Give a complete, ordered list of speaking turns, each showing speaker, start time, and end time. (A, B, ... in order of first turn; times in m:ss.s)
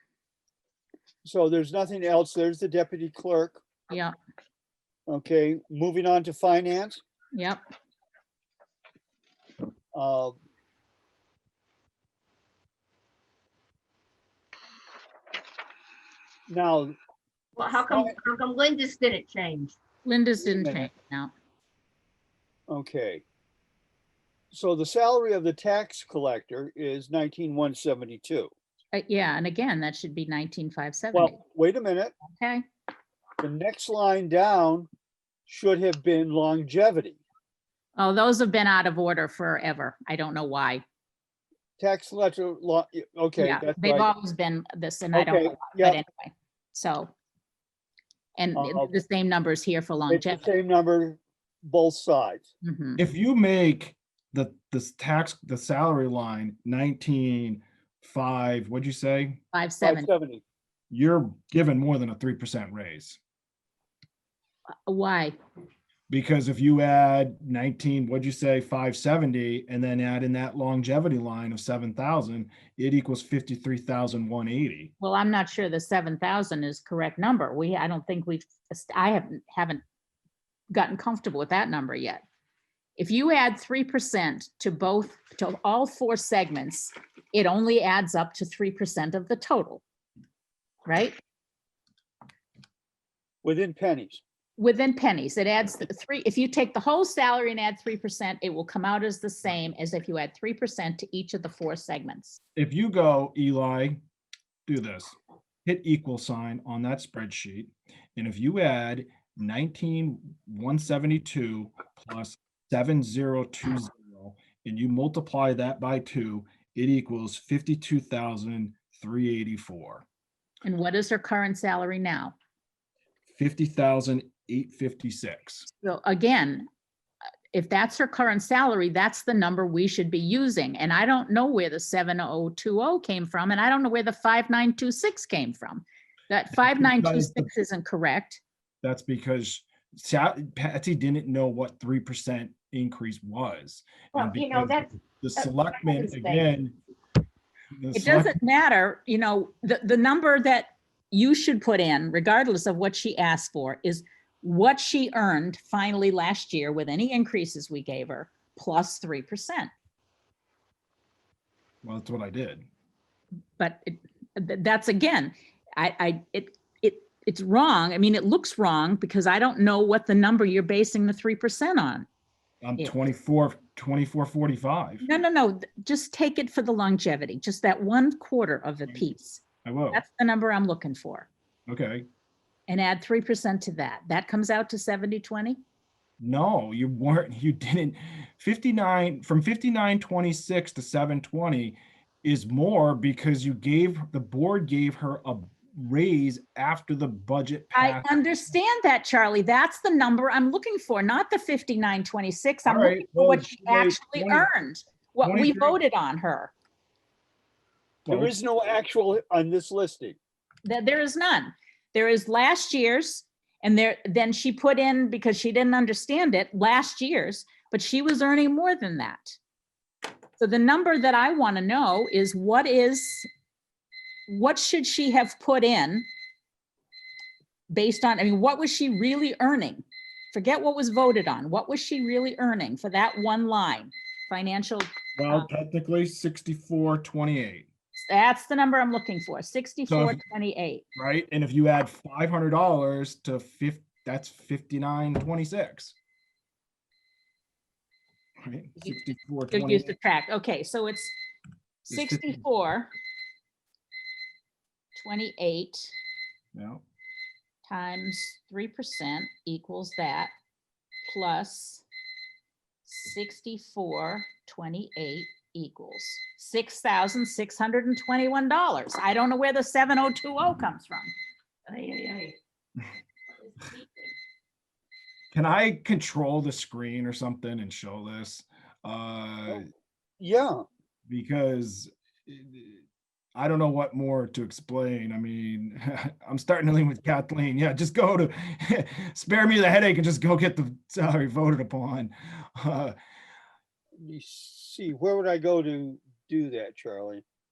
0:01.2-0:03.6 A
0:05.1-0:07.0 A
0:07.4-0:07.6 B
0:09.9-0:10.4 A
0:16.5-0:16.9 A
0:17.6-0:19.8 C
0:17.8-0:18.2 A
0:20.0-0:21.3 B
0:20.4-0:20.9 A
0:22.7-0:23.2 A
0:24.5-0:28.5 A
0:28.9-0:31.4 B
0:31.1-0:32.1 A
0:32.3-0:32.7 B
0:33.4-0:34.9 A
0:35.5-0:37.2 A
0:38.0-0:40.8 B
0:41.8-0:44.1 A
0:43.4-0:47.1 B
0:45.1-0:46.0 A
0:48.4-0:50.4 B
0:48.6-0:48.9 A
0:50.1-0:52.4 A
0:52.6-0:53.0 B
0:53.0-0:59.4 D
0:59.5-1:00.1 B
0:59.8-1:00.4 A
1:00.9-1:03.2 D
1:04.9-1:05.4 B
1:06.1-1:14.9 D
1:15.0-1:19.8 B
1:20.7-1:22.2 B
1:23.0-1:29.8 B
1:30.9-1:31.2 B
1:33.4-1:34.2 A
1:34.6-1:42.4 B
1:42.6-1:44.0 D
1:44.7-2:00.0 D
2:00.6-2:02.4 B
2:03.3-2:05.7 D
2:05.7-2:06.7 B
2:07.5-2:18.4 B
2:16.6-2:17.5 D
2:18.8-2:26.8 D
2:24.1-2:26.5 C
2:27.8-2:28.4 D
2:27.9-2:39.7 B
2:41.8-2:42.6 D
2:43.6-2:52.1 B
2:52.6-2:55.1 D
2:55.0-3:01.3 B
2:59.6-3:00.0 D
3:01.7-3:02.1 D
3:02.7-3:05.6 B
3:06.2-3:18.1 D
3:17.8-3:26.5 B
3:22.7-3:24.5 D
3:25.2-3:25.8 D
3:28.1-3:28.3 D
3:28.1-3:30.2 A
3:30.6-3:39.4 B
3:40.4-3:43.3 B
3:44.3-3:46.1 B
3:47.7-3:55.5 B
3:55.2-3:57.7 D
3:58.1-4:00.8 B
3:59.9-4:00.2 D
4:01.0-4:06.0 D
4:08.4-4:09.9 D
4:09.5-4:11.2 B
4:11.8-4:12.9 B
4:11.9-4:12.4 D
4:15.0-4:16.0 B
4:16.5-4:16.8 D
4:17.6-4:20.3 B
4:21.1-4:21.8 B
4:22.8-4:31.1 B
4:31.7-4:32.4 C
4:35.3-4:39.6 D
4:40.2-4:40.6 A
4:41.1-4:42.8 D
4:43.4-4:53.0 D
4:54.0-4:57.2 A